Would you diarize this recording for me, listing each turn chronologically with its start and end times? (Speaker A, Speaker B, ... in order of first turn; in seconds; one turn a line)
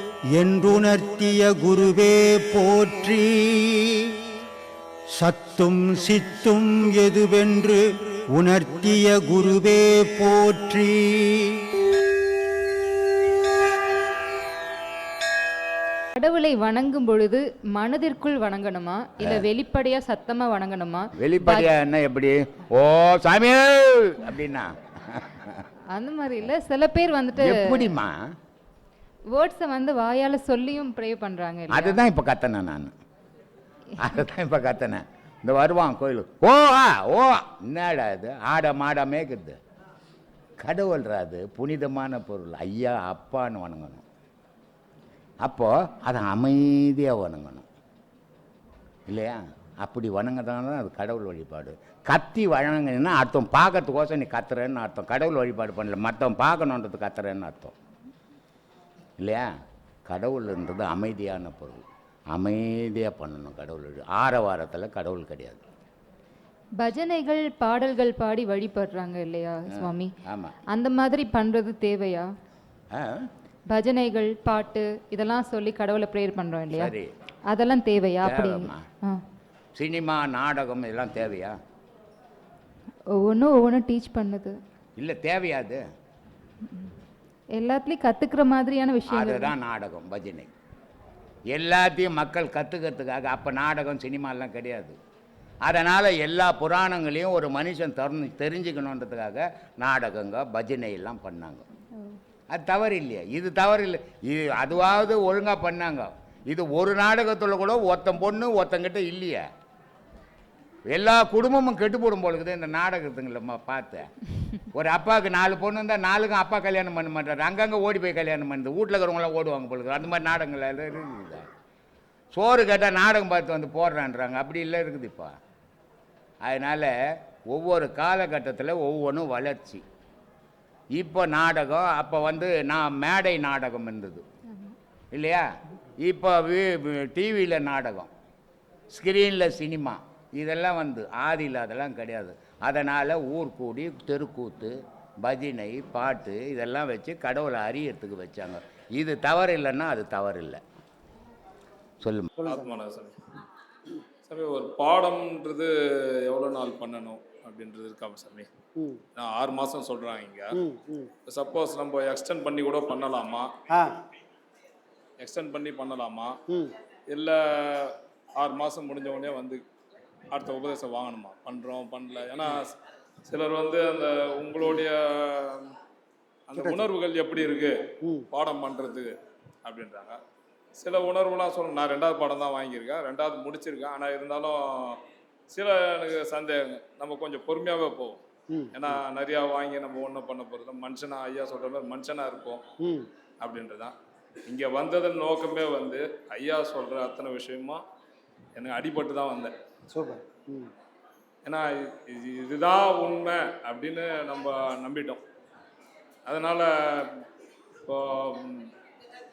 Speaker A: 0.3-4.1
Speaker A: 5.1-11.7
Speaker B: 16.1-21.7
Speaker C: 19.2-19.5
Speaker C: 21.2-25.6
Speaker B: 25.9-27.9
Speaker C: 27.3-28.3
Speaker B: 29.3-32.0
Speaker C: 31.7-32.9
Speaker C: 34.0-39.6
Speaker C: 40.6-44.0
Speaker C: 45.4-47.7
Speaker C: 49.1-57.7
Speaker C: 59.2-59.5
Speaker C: 60.0-65.6
Speaker B: 66.8-70.1
Speaker C: 69.7-70.5
Speaker B: 70.7-72.3
Speaker C: 72.9-73.3
Speaker B: 73.7-76.9
Speaker C: 76.7-77.1
Speaker B: 77.5-79.2
Speaker C: 78.2-78.8
Speaker C: 79.7-81.6
Speaker B: 83.1-84.6
Speaker C: 85.0-85.8
Speaker B: 86.7-86.9
Speaker B: 87.5-89.5
Speaker C: 89.1-90.5
Speaker C: 91.5-95.0
Speaker C: 95.6-101.6
Speaker C: 102.5-109.5
Speaker C: 110.9-114.1
Speaker C: 114.7-121.5
Speaker C: 122.3-125.3
Speaker C: 126.4-129.8
Speaker C: 130.9-134.2
Speaker C: 135.1-138.1
Speaker C: 138.9-150.6
Speaker C: 152.0-152.3
Speaker D: 152.4-152.7
Speaker E: 152.4-153.2
Speaker E: 154.2-158.5
Speaker D: 158.8-159.0
Speaker E: 159.2-160.5
Speaker D: 160.5-161.1
Speaker E: 161.3-163.5
Speaker E: 165.2-166.4
Speaker E: 167.1-169.6
Speaker E: 170.3-172.7
Speaker E: 173.3-175.7
Speaker E: 176.5-179.1
Speaker D: 176.6-176.8
Speaker D: 178.0-178.3
Speaker E: 179.6-180.2
Speaker E: 180.8-185.0
Speaker E: 185.5-188.2
Speaker D: 188.5-189.0
Speaker E: 188.7-192.6
Speaker D: 192.8-193.1
Speaker E: 193.4-193.9
Speaker E: 194.5-197.8
Speaker E: 198.6-199.5
Speaker D: 199.9-200.7
Speaker E: 201.4-205.2
Speaker E: 206.2-207.2
Speaker E: 207.8-208.7